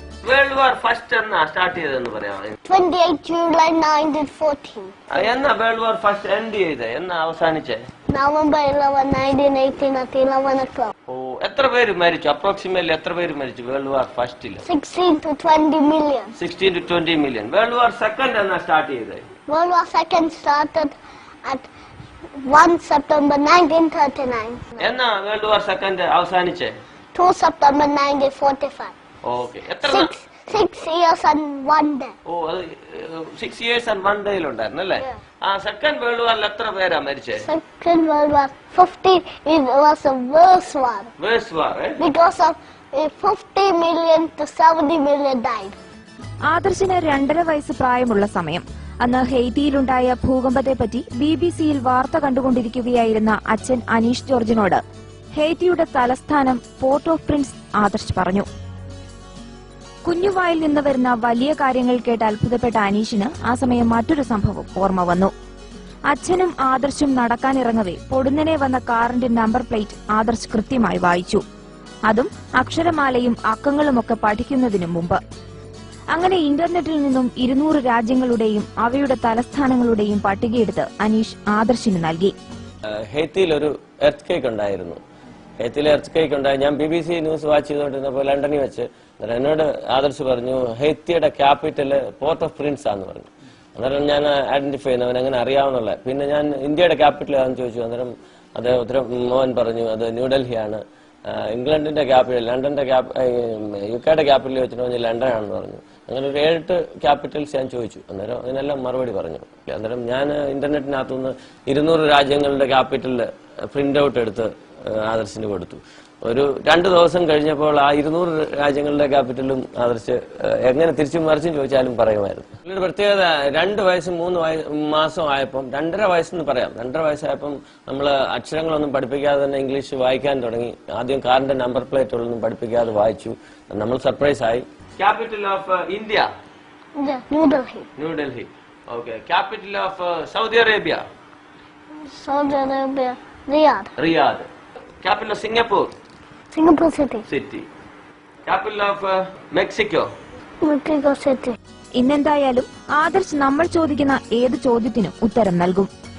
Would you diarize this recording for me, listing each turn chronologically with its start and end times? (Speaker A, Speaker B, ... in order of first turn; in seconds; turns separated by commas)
Speaker A: 0.2-2.6, Speaker B: 2.6-4.9, Speaker A: 5.1-7.8, Speaker B: 8.1-10.9, Speaker A: 11.1-14.6, Speaker B: 14.6-16.3, Speaker A: 16.3-19.3, Speaker B: 19.5-21.7, Speaker B: 22.4-24.9, Speaker A: 24.8-26.8, Speaker B: 27.1-28.9, Speaker A: 29.2-30.1, Speaker B: 29.8-32.1, Speaker A: 32.2-37.5, Speaker B: 37.4-41.1, Speaker A: 41.2-42.0, Speaker B: 42.0-45.8, Speaker C: 46.5-54.8, Speaker C: 55.4-58.5, Speaker C: 60.0-65.3, Speaker C: 66.1-71.4, Speaker C: 72.1-75.2, Speaker C: 76.1-82.3, Speaker A: 83.1-85.0, Speaker A: 85.6-136.3, Speaker B: 137.0-137.9, Speaker A: 137.9-141.1, Speaker B: 142.0-143.9, Speaker A: 144.0-144.5, Speaker A: 145.0-145.9, Speaker B: 146.5-147.2, Speaker A: 147.3-147.7, Speaker A: 148.4-150.1, Speaker B: 150.6-151.6, Speaker C: 152.0-155.9